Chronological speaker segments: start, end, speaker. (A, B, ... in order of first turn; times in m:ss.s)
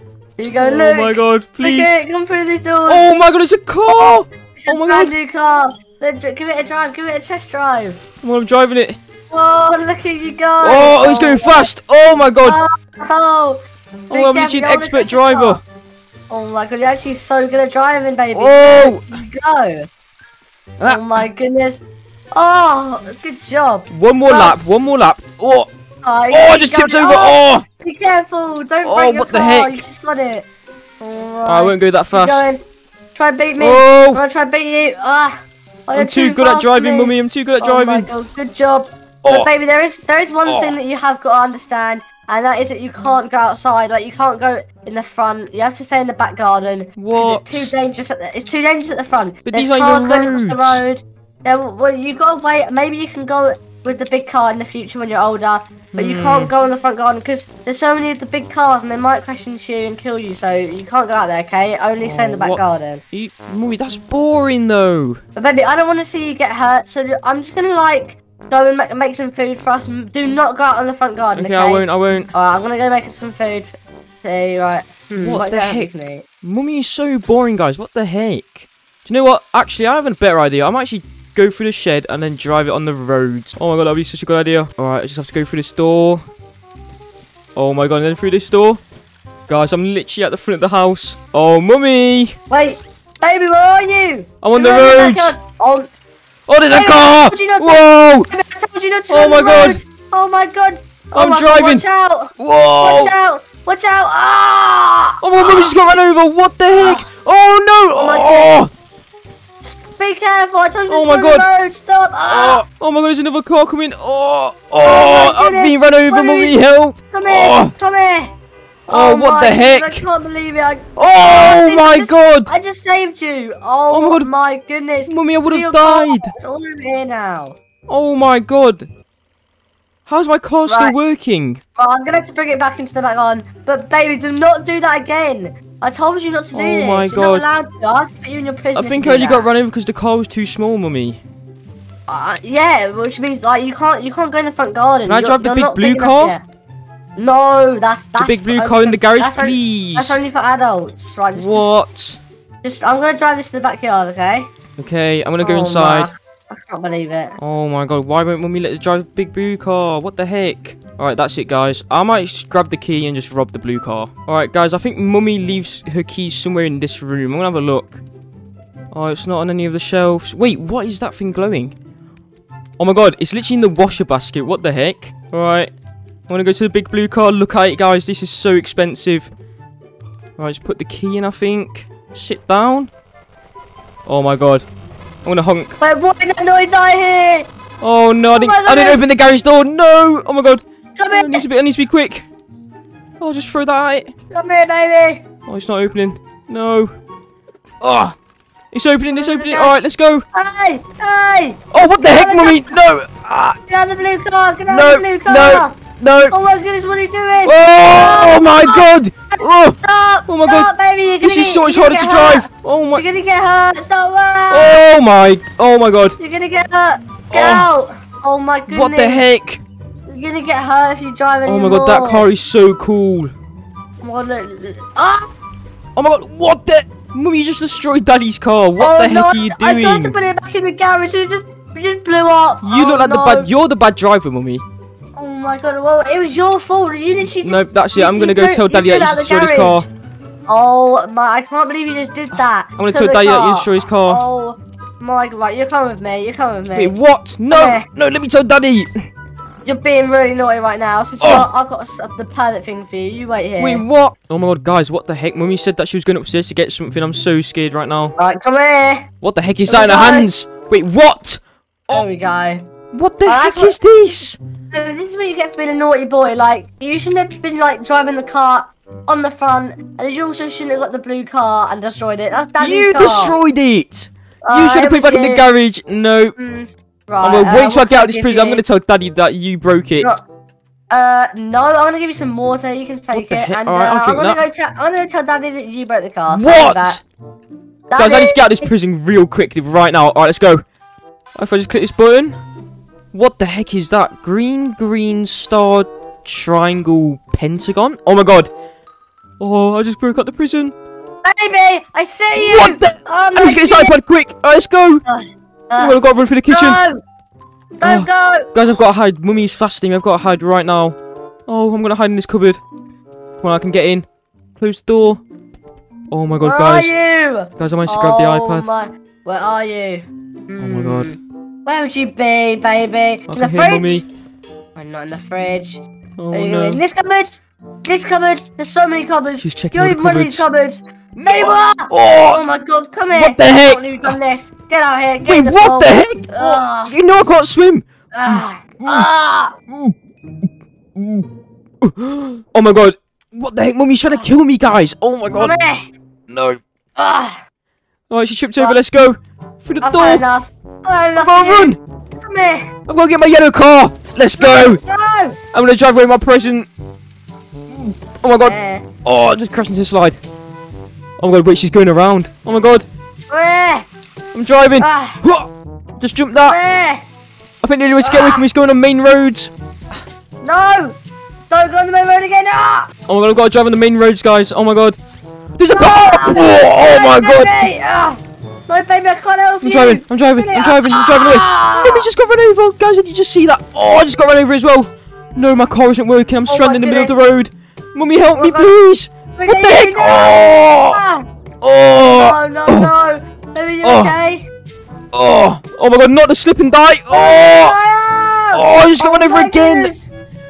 0:00.4-0:03.1 A
0:00.6-0:01.9 B
0:02.9-0:05.1 B
0:04.6-0:08.0 A
0:08.2-0:09.0 B
0:09.3-0:11.7 A
0:10.6-0:12.6 B
0:12.4-0:15.6 A
0:14.1-0:15.6 B
0:16.3-0:19.9 A
0:18.3-0:19.2 B
0:20.8-0:21.8 A
0:22.3-0:24.5 A
0:23.9-0:25.7 B
0:26.0-0:30.4 A
0:26.3-0:27.6 B
0:28.8-0:29.8 B
0:31.0-0:32.6 A
0:31.4-0:32.5 B
0:33.1-1:03.0 A
0:33.6-0:34.2 B
0:35.9-0:38.1 B
0:39.2-0:39.5 B
0:40.4-0:40.8 B
0:47.0-0:47.7 B
0:49.4-0:50.8 B
0:55.9-0:56.5 B
1:02.0-1:05.2 B
1:05.4-1:16.2 A
1:11.3-1:12.3 B
1:15.2-1:15.9 B
1:16.4-1:26.2 B
1:27.5-1:28.8 B
1:29.5-1:32.4 B
1:32.5-1:35.9 A
1:34.4-1:35.4 B
1:36.5-1:38.3 B
1:36.7-1:42.3 A
1:39.1-1:39.8 B
1:41.1-1:41.8 B
1:42.4-1:43.1 B
1:42.8-1:45.7 A
1:45.2-1:48.7 B
1:46.7-1:47.1 A
1:47.9-1:48.6 A
1:49.6-1:52.6 A
1:50.9-1:51.5 B
1:52.3-1:57.7 B
1:54.8-1:56.6 A
1:57.1-1:58.3 A
1:58.9-2:07.6 A
1:58.9-2:00.0 B
2:01.0-2:02.5 B
2:03.9-2:04.3 B
2:05.1-2:06.3 B
2:07.9-2:08.9 B
2:10.1-2:11.6 B
2:10.6-2:10.9 A
2:11.8-2:19.4 A
2:16.5-2:17.4 B
2:18.7-2:21.2 B
2:22.1-2:26.4 A
2:25.0-2:26.3 B
2:27.2-2:31.7 A
2:28.2-2:30.2 B
2:31.3-2:32.2 B
2:32.6-2:34.5 A
2:34.8-2:36.1 B
2:35.4-2:37.3 A
2:37.4-2:48.0 B
2:48.9-2:51.7 B
2:52.8-2:55.7 B
2:56.3-2:59.3 B
3:00.4-3:02.9 B
3:04.0-3:04.7 B
3:05.2-3:05.8 B
3:05.8-3:07.5 A
3:07.8-3:12.3 B
3:08.3-3:09.1 A
3:11.0-3:11.4 A
3:13.2-3:14.1 B
3:14.3-3:15.2 A
3:15.5-3:16.9 B
3:17.8-3:18.1 B
3:18.7-3:20.2 B
3:19.1-3:19.7 A
3:20.3-3:22.7 A
3:21.7-3:23.6 B
3:23.7-3:25.8 A
3:24.7-3:26.3 B
3:26.3-3:34.8 A
3:27.4-3:30.7 B
3:31.2-3:33.0 B
3:34.5-3:36.2 B
3:36.2-3:39.2 A
3:37.3-3:37.7 B
3:38.7-3:39.6 B
3:40.1-3:42.2 A
3:41.4-3:43.3 B
3:44.0-3:45.3 A
3:46.0-3:50.1 B
3:48.8-3:53.5 A
3:52.6-3:54.6 B
3:55.2-3:59.9 A
3:57.4-3:59.9 B
4:00.5-4:06.9 A
4:02.8-4:04.2 B
4:06.7-4:09.1 B
4:07.5-4:07.8 A
4:09.6-4:13.8 A
4:11.2-4:11.5 B
4:13.6-4:18.1 B
4:18.2-4:19.0 A
4:19.2-4:22.1 B
4:19.7-4:20.3 A
4:21.9-4:22.6 A
4:22.9-4:24.4 B
4:23.2-4:23.8 A
4:24.7-4:33.3 A
4:32.6-4:36.3 B
4:34.4-4:35.4 A
4:36.4-4:38.6 A
4:37.2-4:40.1 B
4:40.9-4:47.0 A
4:43.1-4:44.4 B
4:46.3-4:47.0 B
4:47.9-4:48.7 A
4:48.0-4:50.6 B
4:51.4-4:52.4 B
4:53.1-4:58.5 B
4:59.4-5:00.7 B
5:01.2-5:03.9 A
5:02.3-5:05.0 B
5:05.1-5:07.0 A
5:05.8-5:06.8 B
5:07.8-5:08.5 A
5:07.8-5:12.6 B
5:13.4-5:14.0 B
5:14.6-5:15.2 B
5:16.1-5:16.9 B
5:16.4-5:24.0 A
5:17.6-5:18.7 B
5:20.6-5:21.1 B
5:23.3-5:24.0 B
5:24.8-5:25.8 A
5:26.2-5:26.8 B
5:26.3-5:36.9 A
5:29.4-5:30.4 B
5:31.2-5:32.4 B
5:33.1-5:34.2 B
5:35.2-5:39.1 B
5:38.1-5:39.5 A
5:39.7-5:39.9 B
5:41.0-5:41.3 B
5:41.8-5:45.5 B
5:45.3-5:45.9 A
5:46.3-5:46.6 B
5:47.0-5:47.4 A
5:48.1-5:50.2 B
5:49.8-5:52.7 A
5:51.2-5:51.8 B
5:52.9-5:54.8 B
5:54.4-5:55.4 A
5:55.5-5:56.7 B
5:57.7-6:00.2 B
5:58.4-5:58.8 A
6:01.2-6:02.9 B
6:03.3-6:03.8 A
6:04.3-6:06.6 B
6:04.8-6:05.2 A
6:06.3-6:07.0 A
6:07.6-6:09.5 B
6:08.0-6:08.4 A
6:10.4-6:11.0 A
6:11.5-6:12.9 A
6:13.1-6:15.0 B
6:15.6-6:17.7 B
6:15.7-6:22.1 A
6:19.6-6:31.0 B
6:26.5-6:27.3 A
6:28.3-6:28.7 A
6:29.4-6:31.2 A
6:31.6-6:32.9 B
6:32.1-6:34.5 A
6:33.8-6:34.1 B
6:35.1-6:37.7 B
6:37.1-6:40.1 A
6:38.5-6:39.9 B